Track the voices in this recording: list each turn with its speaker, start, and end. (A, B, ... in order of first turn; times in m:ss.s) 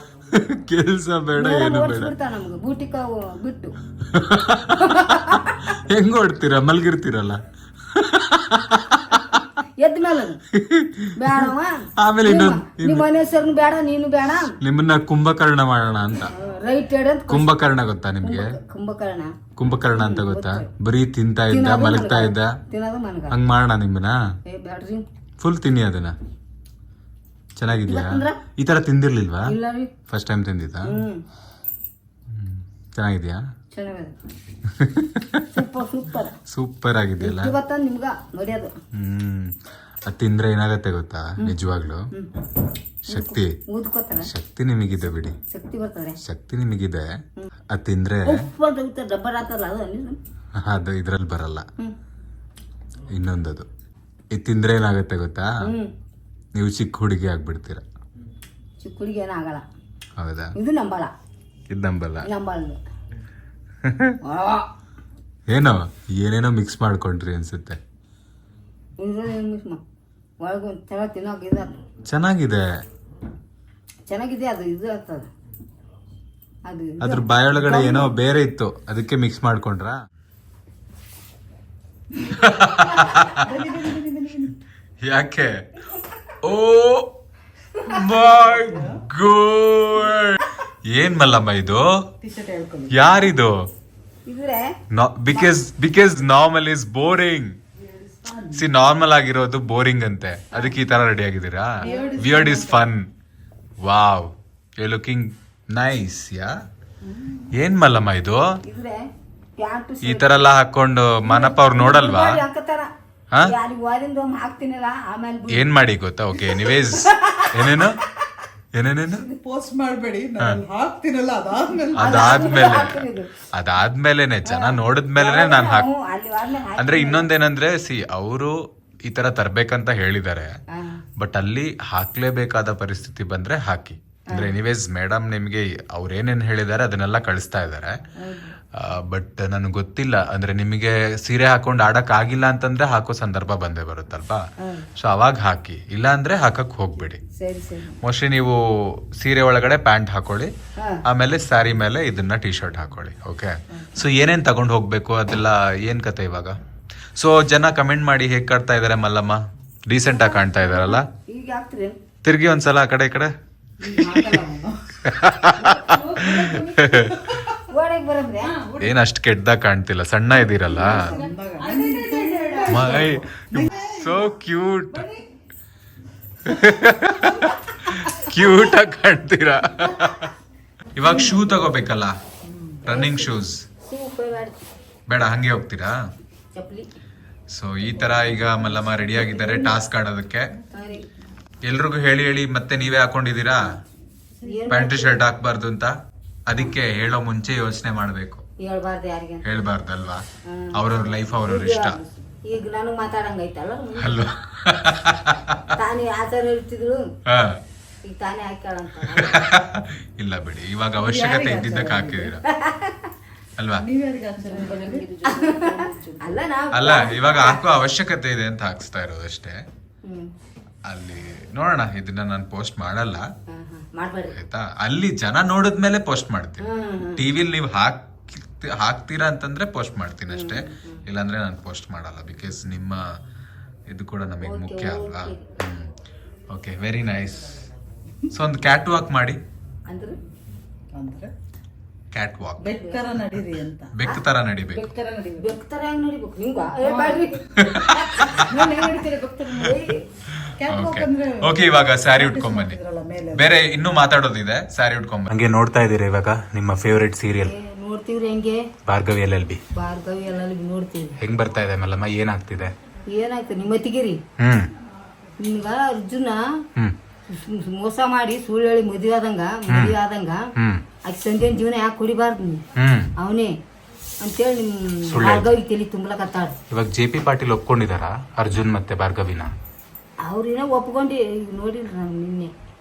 0:00.3-0:02.1 A
0:01.3-0:03.7 B
0:04.0-0:09.4 A
0:04.7-0:05.7 B
0:09.8-0:10.4 B
0:10.5-0:13.1 A
0:11.1-0:14.6 B
0:14.6-0:16.3 A
0:16.3-0:17.6 B
0:17.3-0:18.5 A
0:18.2-0:19.3 B
0:19.6-0:22.6 A
0:19.9-0:20.7 B
0:21.5-0:23.4 B
0:23.3-0:24.2 A
0:24.4-0:25.0 B
0:25.4-0:26.1 A
0:27.6-0:29.5 A
0:27.7-0:28.4 B
0:29.4-0:29.9 B
0:30.1-0:31.0 A
0:30.8-0:31.2 B
0:32.3-0:33.4 A
0:33.7-0:34.2 B
0:34.6-0:35.5 A
0:35.5-0:36.4 B
0:36.5-0:37.6 A
0:37.2-0:38.7 B
0:38.9-0:42.1 A
0:43.0-0:44.3 B
0:43.1-0:43.5 A
0:44.3-0:45.4 A
0:45.5-0:46.2 B
0:46.2-0:47.1 A
0:47.7-0:48.4 A
0:48.2-0:50.2 B
0:50.6-0:51.6 A
0:53.1-0:53.7 A
0:54.3-0:55.5 A
0:55.6-0:55.9 B
0:56.5-0:57.8 A
0:58.8-0:59.6 B
1:00.2-1:00.5 A
1:00.5-1:01.1 B
1:01.7-1:02.3 A
1:02.2-1:02.8 B
1:03.8-1:04.2 A
1:04.2-1:04.7 B
1:05.5-1:07.8 A
1:09.0-1:09.8 B
1:10.4-1:11.8 B
1:12.1-1:12.6 A
1:14.1-1:15.3 B
1:16.6-1:18.1 B
1:17.0-1:20.0 A
1:22.4-1:23.5 A
1:23.2-1:24.6 C
1:25.0-1:25.5 A
1:26.4-1:27.1 A
1:27.8-1:31.9 A
1:28.0-1:29.0 C
1:32.2-1:33.0 C
1:32.9-1:33.5 A
1:34.2-1:34.8 B
1:34.9-1:37.6 A
1:37.8-1:38.7 C
1:38.5-1:43.1 A
1:41.8-1:42.9 C
1:41.8-1:42.3 B
1:43.8-1:46.5 A
1:47.5-1:48.6 A
1:48.6-1:49.0 B
1:49.6-1:50.4 B
1:50.0-1:52.4 A
1:51.2-1:55.7 B
1:55.5-1:58.0 A
1:56.4-1:57.9 B
1:58.7-1:59.3 A
1:59.2-2:02.1 C
2:01.9-2:03.3 B
2:01.9-2:05.9 A
2:04.4-2:07.3 B
2:06.8-2:10.5 A
2:10.7-2:11.0 B
2:11.2-2:18.0 A
2:18.2-2:18.6 B
2:18.7-2:24.4 A
2:24.6-2:24.9 B
2:25.0-2:27.2 A
2:27.3-2:28.0 B
2:28.0-2:30.5 A
2:30.8-2:31.0 B
2:31.1-2:36.6 A
2:37.2-2:41.0 A
2:40.1-2:42.0 B
2:42.2-2:43.3 A
2:43.8-2:45.0 C
2:44.1-2:44.4 A
2:45.0-2:47.3 A
2:45.7-2:47.5 C
2:47.6-2:48.6 B
2:48.4-2:48.9 C
2:48.8-2:51.1 A
2:50.5-2:54.2 C
2:50.7-2:53.1 B
2:52.7-2:55.1 A
2:54.9-2:55.2 C
2:56.4-3:00.3 A
3:00.9-3:02.2 A
3:01.0-3:01.4 C
3:02.4-3:02.8 C
3:02.8-3:03.6 A
3:02.8-3:04.6 B
3:05.1-3:06.0 A
3:06.5-3:06.9 B
3:07.5-3:10.5 A
3:08.4-3:09.7 C
3:10.7-3:11.1 B
3:11.6-3:13.8 A
3:14.4-3:14.6 C
3:14.4-3:15.2 B
3:14.7-3:15.9 A
3:16.5-3:18.4 A
3:18.6-3:19.6 B
3:19.4-3:22.0 A
3:20.4-3:24.2 B
3:24.0-3:25.7 A
3:25.7-3:27.1 B
3:27.3-3:27.6 A
3:28.0-3:29.5 B
3:29.1-3:32.4 A
3:31.0-3:32.4 C
3:32.4-3:33.1 B
3:33.6-3:33.9 A
3:33.8-3:36.4 C
3:34.4-3:37.6 B
3:36.7-3:39.6 A
3:40.0-3:40.3 B
3:40.9-3:43.2 A
3:43.5-3:44.4 B
3:44.3-3:53.1 A
3:46.6-3:47.2 B
3:50.3-3:51.0 B
3:53.9-3:55.9 A
3:54.4-3:55.5 B
3:56.5-3:57.6 A
3:58.3-3:59.4 A
3:59.9-4:00.2 B
4:00.9-4:01.3 C
4:02.1-4:02.7 A
4:02.6-4:04.0 C
4:02.7-4:03.0 B
4:03.9-4:04.9 A
4:04.7-4:05.5 C
4:05.3-4:10.1 B
4:06.8-4:07.3 C
4:07.6-4:08.5 A
4:08.1-4:09.8 C
4:10.3-4:12.8 A
4:10.6-4:13.6 C
4:13.3-4:17.5 A
4:17.4-4:18.7 B
4:18.8-4:19.6 A
4:19.7-4:21.2 B
4:21.2-4:22.7 A
4:23.1-4:24.2 B
4:24.4-4:24.7 A
4:25.4-4:26.6 B
4:27.3-4:30.5 B
4:29.7-4:30.0 A
4:30.6-4:30.8 A
4:31.0-4:32.6 B
4:32.8-4:33.1 A
4:33.2-4:33.5 B
4:34.2-4:36.6 B
4:35.1-4:35.5 A
4:36.7-4:39.5 A
4:40.2-4:42.5 B